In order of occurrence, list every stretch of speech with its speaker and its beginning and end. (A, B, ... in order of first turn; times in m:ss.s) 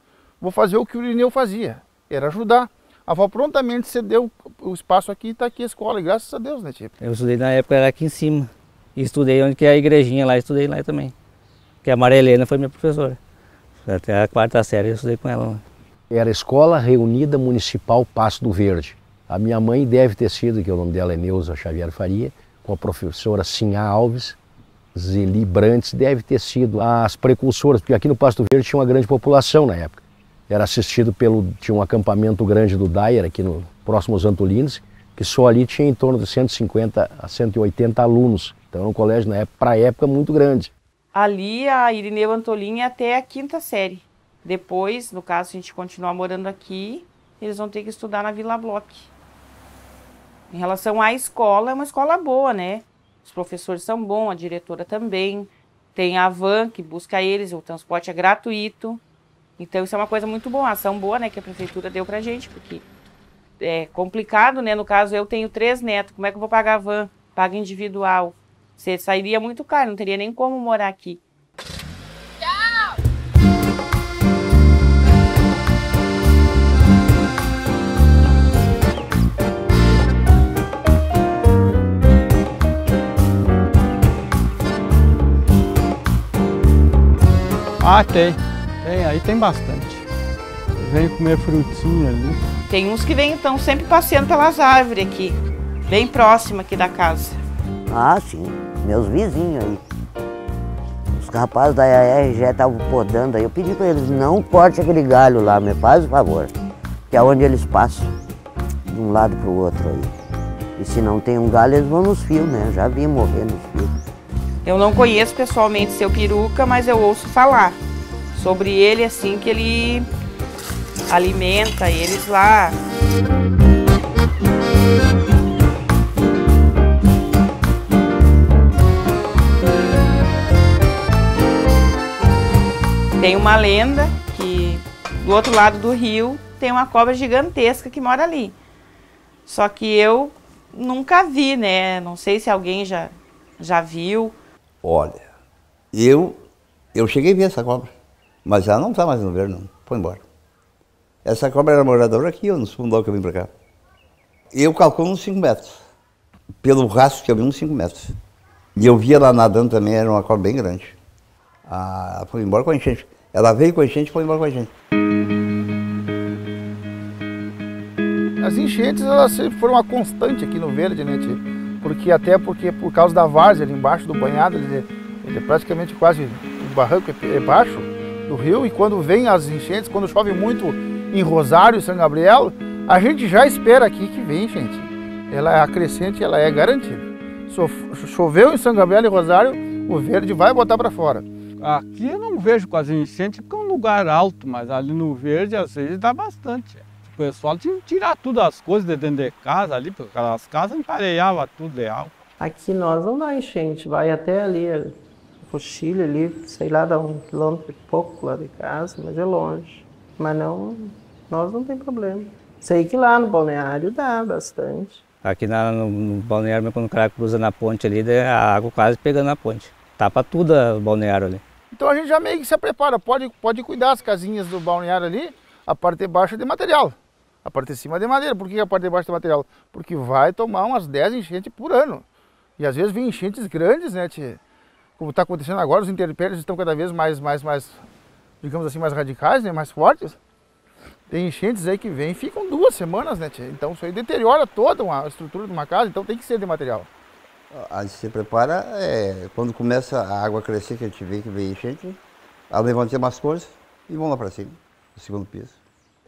0:00.4-0:06.9 A
0:07.0-0:11.1 B
0:11.8-0:13.2 B
0:13.8-0:15.6 B
0:16.1-0:24.4 C
0:24.9-0:40.7 C
0:41.1-0:49.1 D
0:50.5-0:59.0 D
0:59.6-1:02.8 D
1:03.6-1:11.2 D
1:27.8-1:30.1 E
1:30.8-1:32.4 E
1:32.7-1:37.4 D
1:37.9-1:39.8 F
1:41.1-1:46.5 F
1:47.1-1:48.1 F
1:48.9-1:50.1 F
1:50.8-1:53.9 F
1:54.6-1:57.8 D
1:58.3-2:00.1 D
2:01.1-2:02.8 D
2:13.2-2:18.6 D
2:19.5-2:24.4 D
2:24.8-2:25.2 G
2:25.9-2:26.4 G
2:26.9-2:27.9 G
2:28.4-2:30.2 G
2:31.2-2:33.5 G
2:34.5-2:35.8 G
2:36.6-2:38.1 G
2:38.8-2:41.0 G
2:41.6-2:44.7 G
2:48.4-3:11.2 A
3:11.6-3:22.1 E
3:22.4-3:35.0 H
3:35.2-3:41.4 B
3:41.7-3:52.0 A
3:52.6-3:54.4 A
3:55.0-3:57.8 A
3:58.4-4:00.2 A
4:01.1-4:06.9 A
4:07.5-4:12.0 G
4:12.5-4:15.6 G